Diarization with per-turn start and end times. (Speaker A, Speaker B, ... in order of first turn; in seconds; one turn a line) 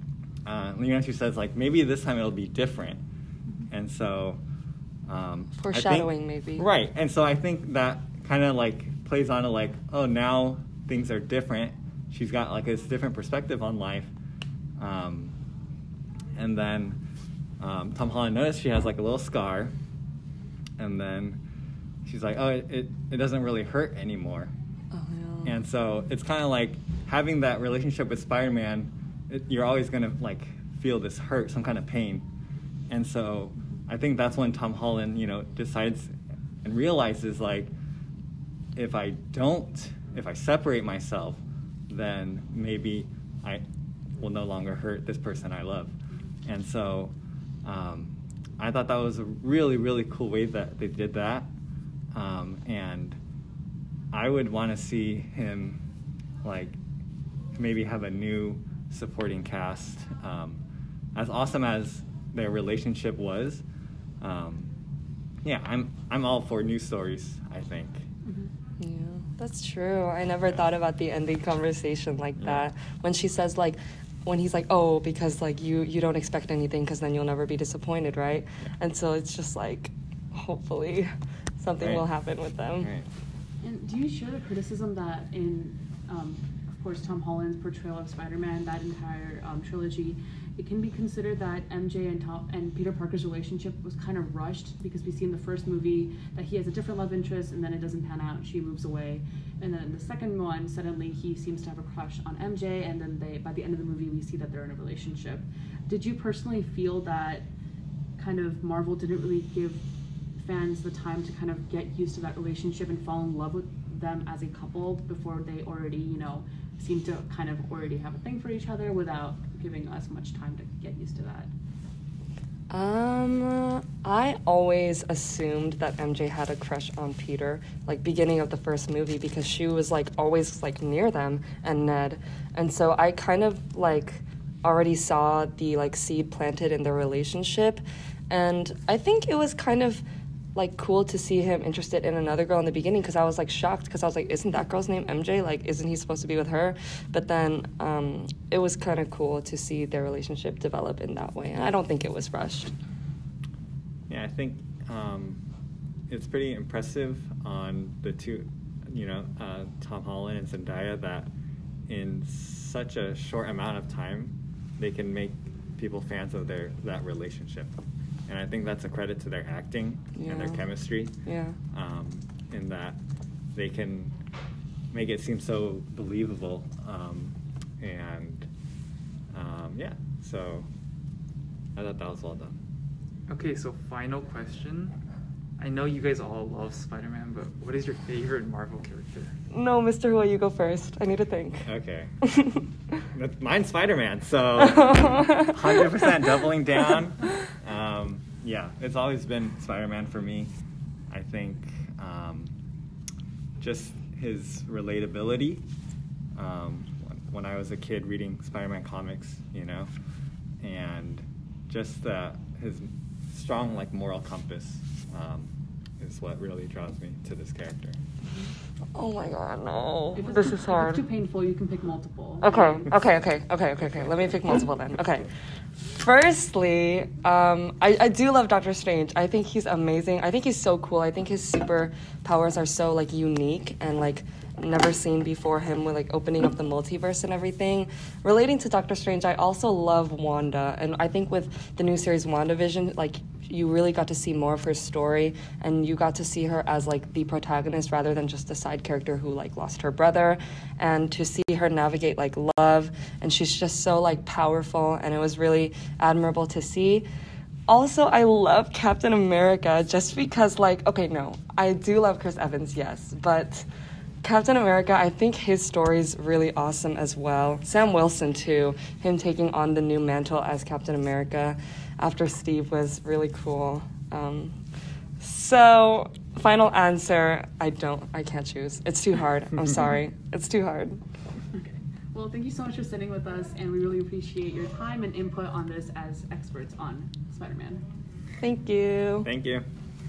Speaker A: 0.5-3.0
Speaker A: 3.7-4.4
Speaker A: 5.0-14.1
Speaker B: 5.6-6.7
Speaker A: 14.8-15.3
Speaker A: 16.4-17.0
Speaker A: 17.6-19.7
Speaker A: 20.8-21.4
Speaker A: 22.0-24.5
Speaker B: 24.9-25.5
Speaker A: 25.4-32.2
Speaker A: 32.9-37.7
Speaker A: 38.8-43.6
Speaker A: 44.2-45.9
Speaker A: 46.4-47.1
Speaker A: 47.6-51.5
Speaker A: 52.1-53.2
Speaker A: 54.1-55.8
Speaker A: 56.4-56.8
Speaker A: 57.6-60.6
Speaker A: 61.1-63.6
Speaker A: 64.2-64.7
Speaker A: 65.4-68.0
Speaker C: 68.2-68.5
Speaker B: 68.8-82.9
Speaker A: 82.8-83.1
Speaker C: 83.6-107.5
Speaker C: 108.2-109.8
Speaker C: 110.4-121.5
Speaker B: 122.7-140.0
Speaker B: 140.5-152.7
Speaker A: 154.1-155.4
Speaker A: 156.1-161.3
Speaker A: 161.9-167.7
Speaker A: 168.3-171.2
Speaker B: 170.2-170.7
Speaker B: 171.2-171.6
Speaker A: 171.7-173.0
Speaker A: 173.5-174.1
Speaker A: 174.9-178.5
Speaker A: 179.3-180.7
Speaker A: 181.7-182.6
Speaker D: 183.3-184.9
Speaker D: 185.6-189.3
Speaker B: 189.5-191.7
Speaker A: 191.7-192.1
Speaker B: 192.2-192.6
Speaker A: 193.1-200.5
Speaker B: 194.6-195.8
Speaker A: 201.1-202.5
Speaker A: 203.6-205.6
Speaker A: 206.3-209.9
Speaker A: 210.6-218.0
Speaker B: 218.9-221.0
Speaker C: 220.1-222.8
Speaker B: 222.4-225.3
Speaker B: 225.8-257.1
Speaker B: 257.7-263.7
Speaker B: 264.2-274.6
Speaker B: 275.2-281.0
Speaker C: 281.5-287.8
Speaker B: 288.4-289.3
Speaker A: 289.2-289.6